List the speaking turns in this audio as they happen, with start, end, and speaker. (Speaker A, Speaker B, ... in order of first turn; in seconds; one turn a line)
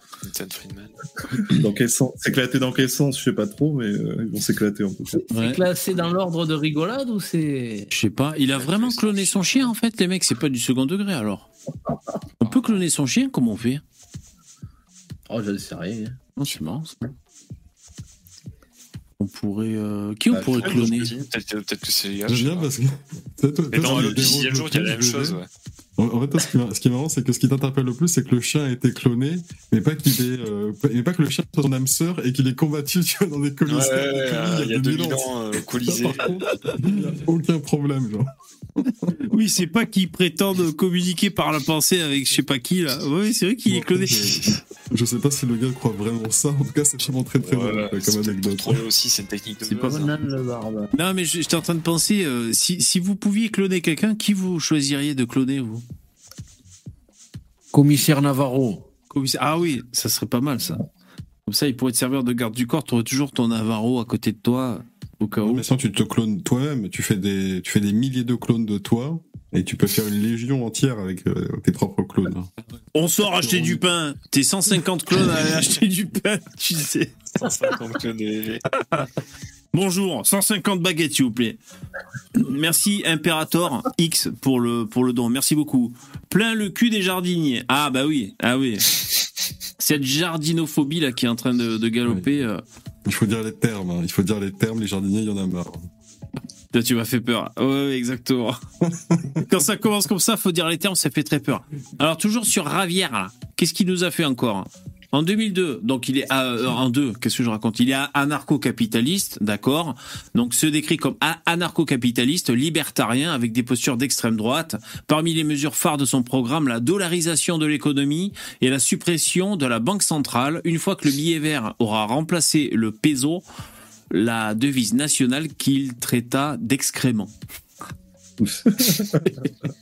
Speaker A: 0.2-0.9
Speaker B: 1.4-5.2
Speaker C: 5.1-7.9
Speaker D: 5.3-5.6
Speaker D: 7.9-11.5
Speaker A: 8.5-9.7
Speaker D: 12.4-13.8
Speaker A: 12.4-12.8
Speaker C: 15.3-16.1
Speaker D: 16.4-17.1
Speaker D: 19.2-21.1
Speaker B: 20.3-21.0
Speaker A: 20.4-22.7
Speaker E: 22.2-25.4
Speaker A: 23.7-25.5
Speaker E: 26.0-35.3
Speaker A: 33.6-36.3
Speaker E: 35.9-38.3
Speaker E: 38.8-39.1
Speaker D: 39.3-44.5
Speaker E: 43.7-48.8
Speaker A: 47.4-50.1
Speaker C: 49.7-50.9
Speaker D: 50.9-55.8
Speaker C: 57.7-58.9
Speaker D: 59.1-60.8
Speaker D: 61.5-65.7
Speaker E: 65.4-72.5
Speaker D: 72.9-77.1
Speaker E: 73.2-73.8
Speaker A: 77.3-78.6
Speaker D: 79.7-81.6
Speaker D: 82.3-88.9
Speaker D: 89.8-92.6
Speaker E: 93.0-95.9
Speaker D: 96.7-98.6
Speaker E: 98.9-99.4
Speaker D: 99.4-123.4
Speaker D: 124.1-127.3
Speaker B: 128.4-129.3